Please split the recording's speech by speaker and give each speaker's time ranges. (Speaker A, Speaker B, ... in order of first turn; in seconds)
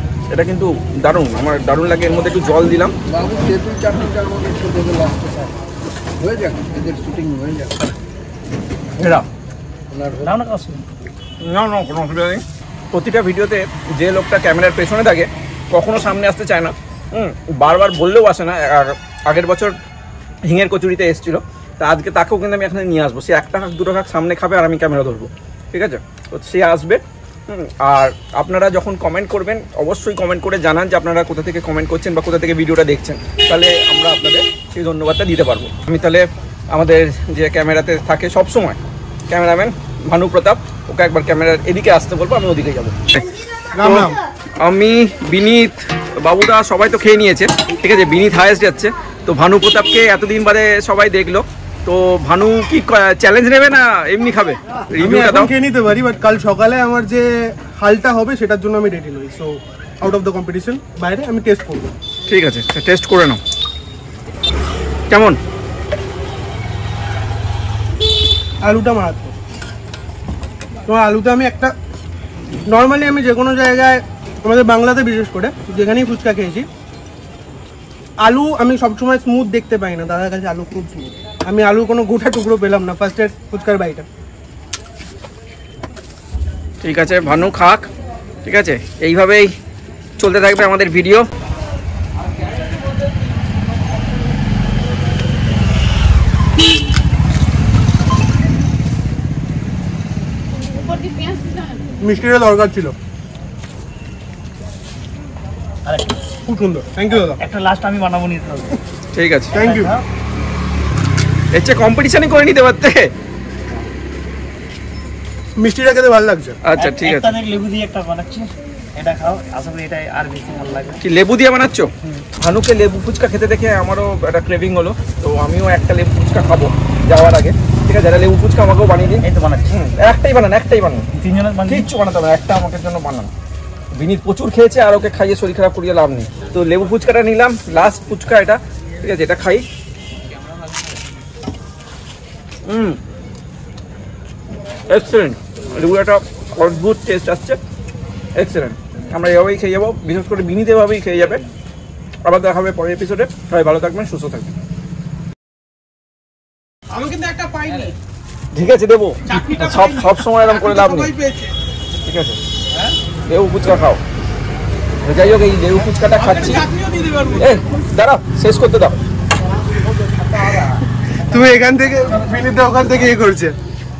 Speaker A: 0.3-3.0, 9.0-9.3, 11.4-19.8, 20.4-55.5, 62.3-63.4, 65.1-65.4, 86.8-87.9, 88.5-89.5, 90.2-91.3, 109.1-109.6, 111.5-113.1, 116.6-117.4, 121.0-131.1, 131.7-133.3, 134.0-139.6, 142.7-143.0, 144.9-147.6, 148.4-151.5, 152.2-154.5, 158.5-161.1, 162.1-162.4, 163.3-164.0, 165.0-166.7, 167.4-169.0
Speaker B: 3.1-5.5, 6.2-8.0, 9.9-10.3
Speaker C: 10.2-10.8, 105.9-106.2, 107.1-108.8, 109.5-110.0, 116.8-121.0, 129.2-129.8, 131.2-131.9
Speaker D: 43.8-44.2, 55.0-61.9, 68.6-69.3, 70.9-71.7, 72.7-76.7, 78.2-84.1, 102.0-103.0, 106.5-107.4, 109.5-109.9, 115.6-116.6, 170.2-173.6
Speaker E: 156.9-158.0, 159.3-161.5, 166.2-167.6